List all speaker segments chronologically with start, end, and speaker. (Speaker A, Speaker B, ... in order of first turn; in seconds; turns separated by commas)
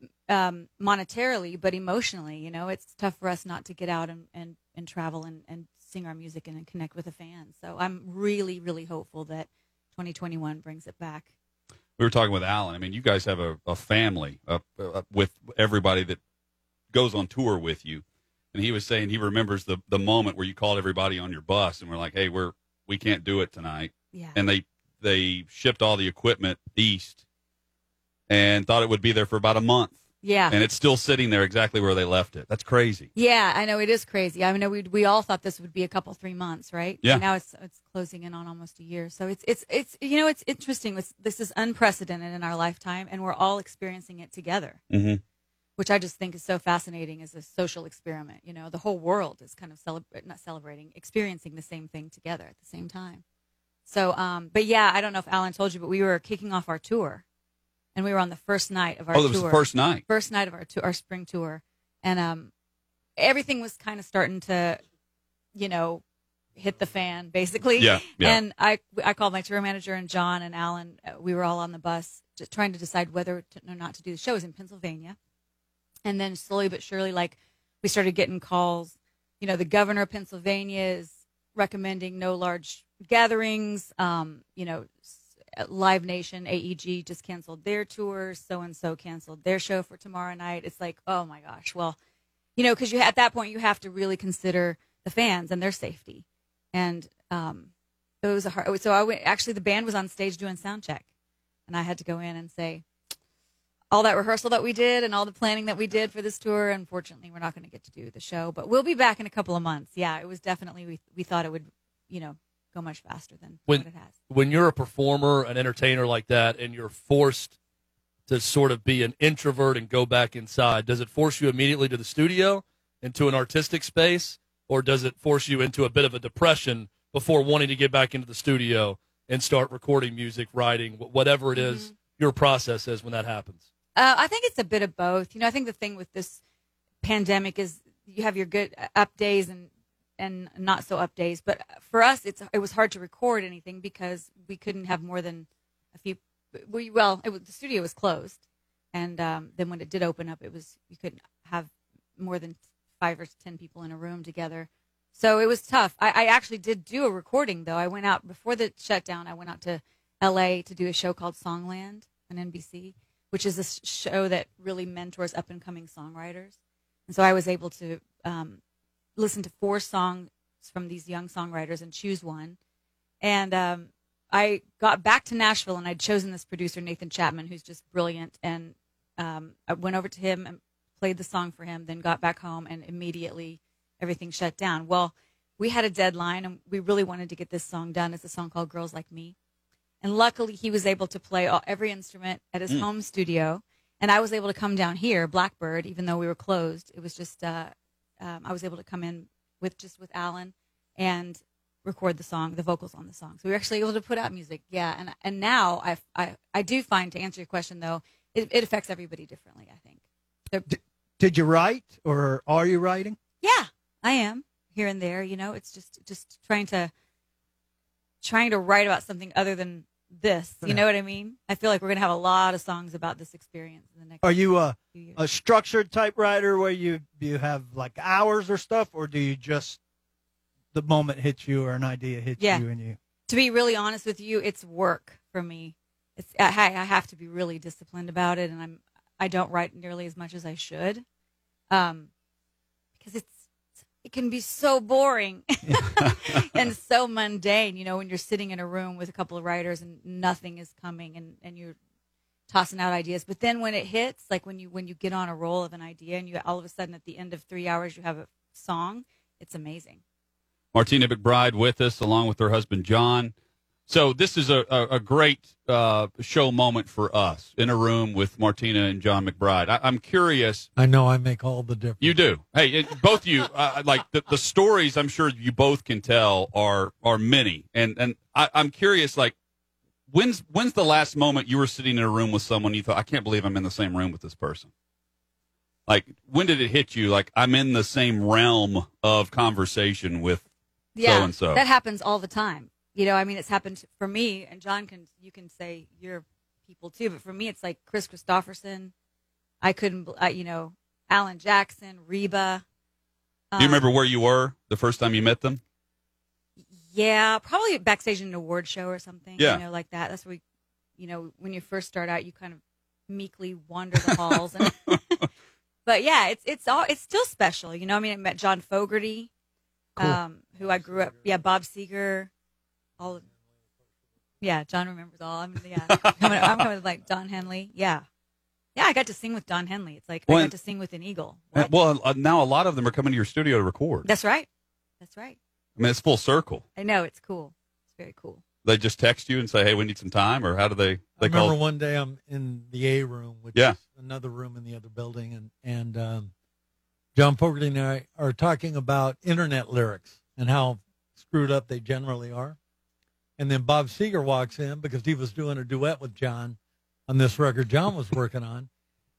Speaker A: 0.3-11.3, Speaker B: 12.0-16.2, Speaker B: 16.9-27.2, Speaker A: 24.1-24.4, Speaker B: 28.3-30.0, Speaker A: 30.2-30.6, Speaker B: 30.5-33.1, Speaker A: 33.1-44.8, Speaker B: 44.9-45.2, Speaker A: 45.8-53.2, Speaker A: 53.9-57.2, Speaker A: 58.0-62.5, Speaker B: 59.1-60.0, Speaker A: 63.2-64.8, Speaker A: 65.5-66.0, Speaker A: 66.6-75.2, Speaker B: 67.8-68.4, Speaker A: 76.1-92.0, Speaker A: 92.6-97.7, Speaker A: 98.2-101.1, Speaker A: 101.7-102.8, Speaker A: 103.9-114.1, Speaker C: 113.7-117.6, Speaker C: 118.3-133.6, Speaker A: 131.6-131.9, Speaker A: 134.0-136.4, Speaker A: 137.0-148.4, Speaker A: 148.9-166.5, Speaker A: 167.1-168.6, Speaker A: 169.2-172.6, Speaker A: 173.2-189.3, Speaker A: 190.0-210.7, Speaker D: 210.7-213.2, Speaker A: 213.4-216.9, Speaker A: 218.2-225.2, Speaker D: 224.2-229.8, Speaker D: 230.7-233.0, Speaker A: 232.4-232.7, Speaker A: 233.3-241.0, Speaker A: 241.7-242.1, Speaker A: 243.0-243.4, Speaker A: 244.0-251.8, Speaker A: 252.5-260.0, Speaker B: 260.7-263.3, Speaker B: 263.9-270.7, Speaker E: 270.8-272.2, Speaker B: 272.0-279.4, Speaker B: 280.1-284.7, Speaker B: 285.9-290.4, Speaker A: 290.9-298.9, Speaker B: 291.0-291.6, Speaker A: 299.6-302.6, Speaker A: 303.5-303.8, Speaker B: 303.6-305.6, Speaker A: 306.7-310.4, Speaker A: 311.0-315.3, Speaker A: 315.9-319.3, Speaker A: 320.0-322.3, Speaker A: 323.0-323.3, Speaker A: 324.4-328.0, Speaker B: 326.0-326.3, Speaker A: 328.8-331.7, Speaker B: 330.3-330.5, Speaker B: 331.6-334.1, Speaker A: 334.1-334.5, Speaker A: 335.0-335.4, Speaker B: 335.8-336.6, Speaker A: 336.8-338.4, Speaker B: 338.6-341.6, Speaker E: 341.2-346.3, Speaker E: 347.1-352.6, Speaker E: 353.4-358.7